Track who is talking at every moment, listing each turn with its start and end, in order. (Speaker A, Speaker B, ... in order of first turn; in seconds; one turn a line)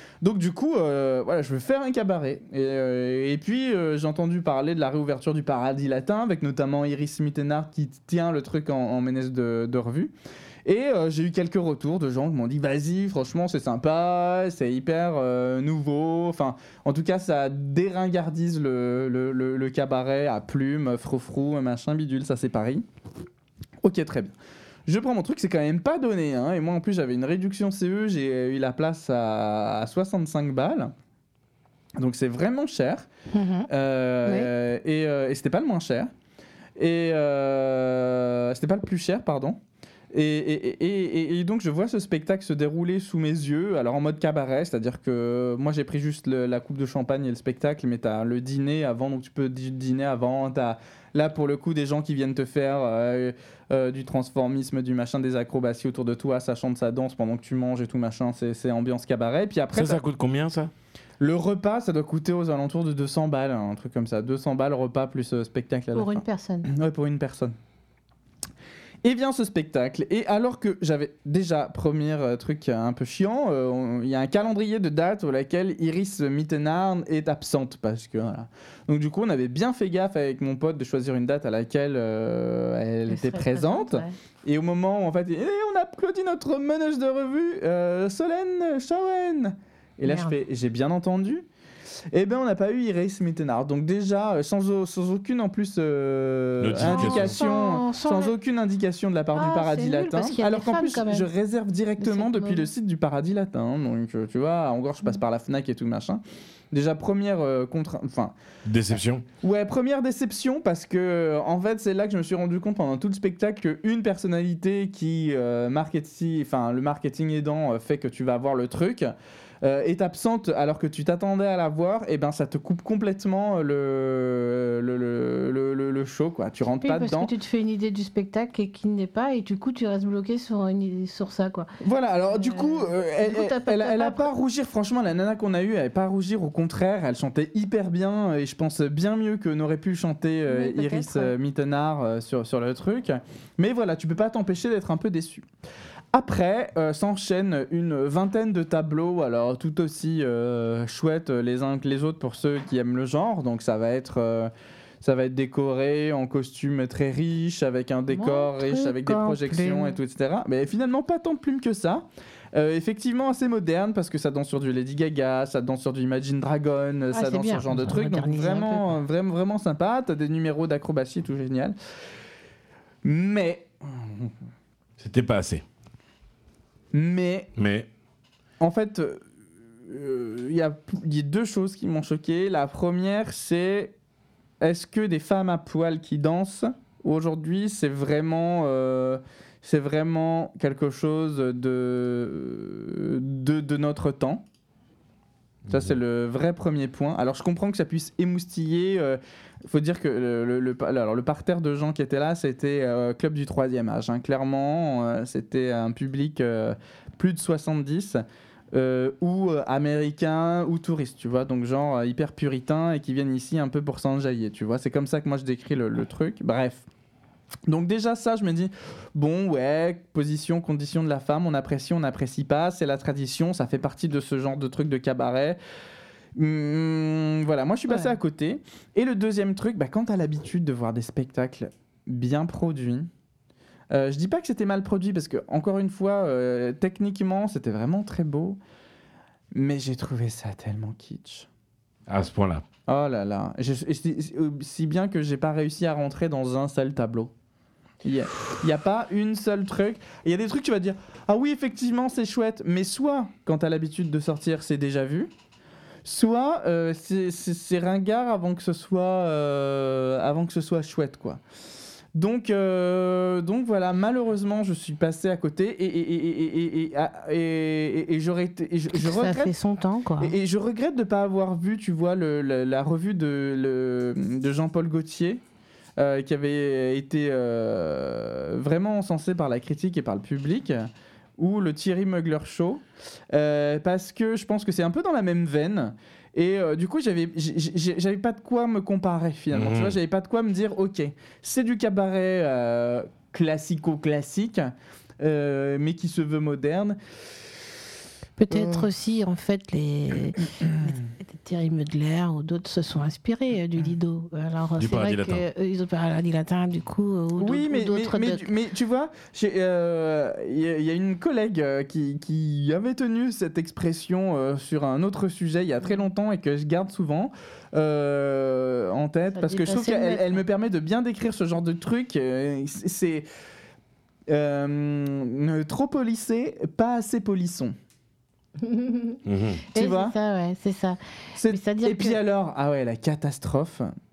Speaker A: 0.2-10.1
Speaker A: 10.7-22.9
Speaker A: 23.8-24.3
Speaker A: 24.9-30.9
Speaker A: 32.0-33.1
Speaker B: 33.3-33.7
Speaker A: 33.7-36.1
Speaker B: 34.3-34.5
Speaker A: 36.8-39.6
Speaker A: 40.1-60.0
Speaker C: 59.7-60.7
Speaker A: 61.2-67.5
Speaker B: 66.0-66.7
Speaker A: 69.0-91.5
Speaker B: 83.1-84.2
Speaker B: 90.1-90.3
Speaker A: 92.1-108.3
Speaker C: 96.6-97.4
Speaker B: 96.8-98.3
Speaker B: 99.3-101.3
Speaker B: 102.0-102.7
Speaker C: 108.7-109.2
Speaker A: 109.4-127.3
Speaker B: 126.8-131.7
Speaker A: 131.8-145.5
Speaker B: 132.3-134.3
Speaker B: 140.5-141.3
Speaker A: 146.1-171.8
Speaker B: 158.1-160.0
Speaker B: 167.1-169.0
Speaker A: 173.0-174.3
Speaker C: 175.0-175.6
Speaker A: 176.9-177.5
Speaker C: 177.6-177.9
Speaker A: 178.6-179.3
Speaker A: 179.8-184.0
Speaker A: 184.6-194.4
Speaker C: 195.7-195.9
Speaker A: 195.7-216.9
Speaker A: 217.7-225.6
Speaker A: 226.4-233.1
Speaker A: 233.9-238.6
Speaker A: 239.5-241.5
Speaker C: 242.1-242.6
Speaker A: 242.9-247.3
Speaker A: 248.0-255.3
Speaker A: 256.1-261.4
Speaker A: 262.1-269.5
Speaker B: 268.9-270.4
Speaker A: 270.2-275.4
Speaker A: 276.0-297.0
Speaker C: 289.5-290.0
Speaker B: 298.4-308.5
Speaker A: 298.5-298.9
Speaker C: 304.8-305.4
Speaker A: 307.4-323.3
Speaker B: 319.4-320.4
Speaker A: 324.3-327.8
Speaker B: 328.6-329.2
Speaker C: 329.2-329.6
Speaker B: 329.7-331.0
Speaker A: 329.8-330.1
Speaker A: 331.4-333.9
Speaker B: 331.5-332.2